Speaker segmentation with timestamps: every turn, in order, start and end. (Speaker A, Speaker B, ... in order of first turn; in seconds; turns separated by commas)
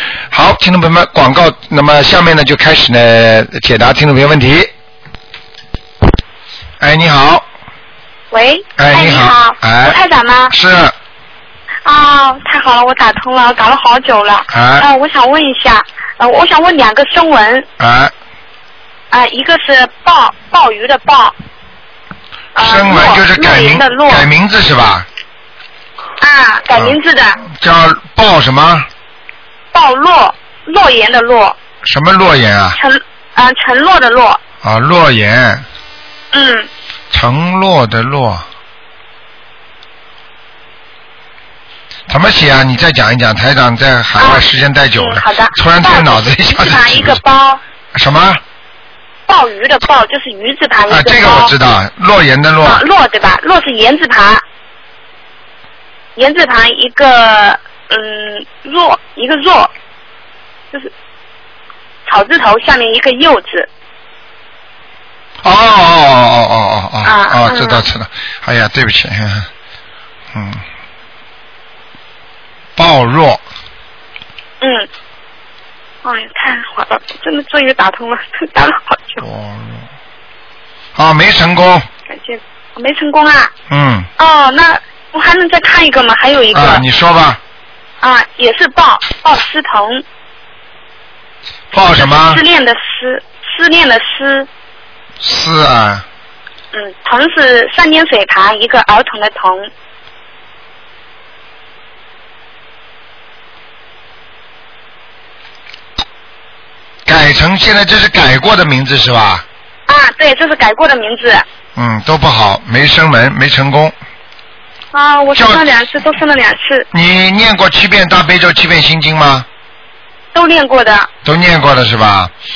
Speaker A: 0.3-4.7, Speaker A: 6.8-7.5, Speaker B: 8.3-10.5, Speaker A: 8.8-10.0, Speaker A: 10.5-10.9, Speaker B: 11.8-17.6, Speaker A: 14.5-14.9, Speaker A: 17.8-18.1, Speaker B: 19.1-21.3, Speaker B: 22.5-24.3, Speaker A: 22.6-25.1, Speaker B: 26.2-27.4, Speaker A: 27.5-28.9, Speaker B: 29.7-31.6, Speaker A: 31.8-32.8, Speaker B: 32.8-34.4, Speaker A: 34.6-35.6, Speaker B: 36.3-36.7, Speaker A: 37.1-38.5, Speaker A: 42.1-47.2, Speaker B: 44.2-44.4, Speaker B: 45.0-47.6, Speaker A: 47.9-48.4, Speaker B: 49.3-51.5, Speaker A: 50.9-52.8, Speaker B: 52.6-54.4, Speaker B: 56.1-59.7, Speaker B: 62.0-63.7, Speaker A: 65.4-69.5, Speaker B: 67.0-67.8, Speaker A: 70.3-70.6, Speaker A: 72.8-73.4, Speaker B: 74.6-74.9, Speaker B: 76.0-79.2, Speaker A: 79.2-79.8, Speaker A: 81.0-81.8, Speaker B: 82.1-83.5, Speaker A: 83.7-84.1, Speaker B: 84.2-86.8, Speaker A: 86.5-87.4, Speaker B: 88.0-90.0, Speaker A: 91.7-92.4, Speaker B: 92.0-94.5, Speaker A: 95.2-96.0, Speaker B: 96.7-99.7, Speaker A: 107.0-109.4, Speaker B: 109.9-111.4, Speaker A: 111.8-113.9, Speaker B: 114.9-116.9, Speaker A: 115.3-115.6, Speaker A: 116.9-119.5, Speaker B: 120.3-121.1, Speaker A: 121.2-122.3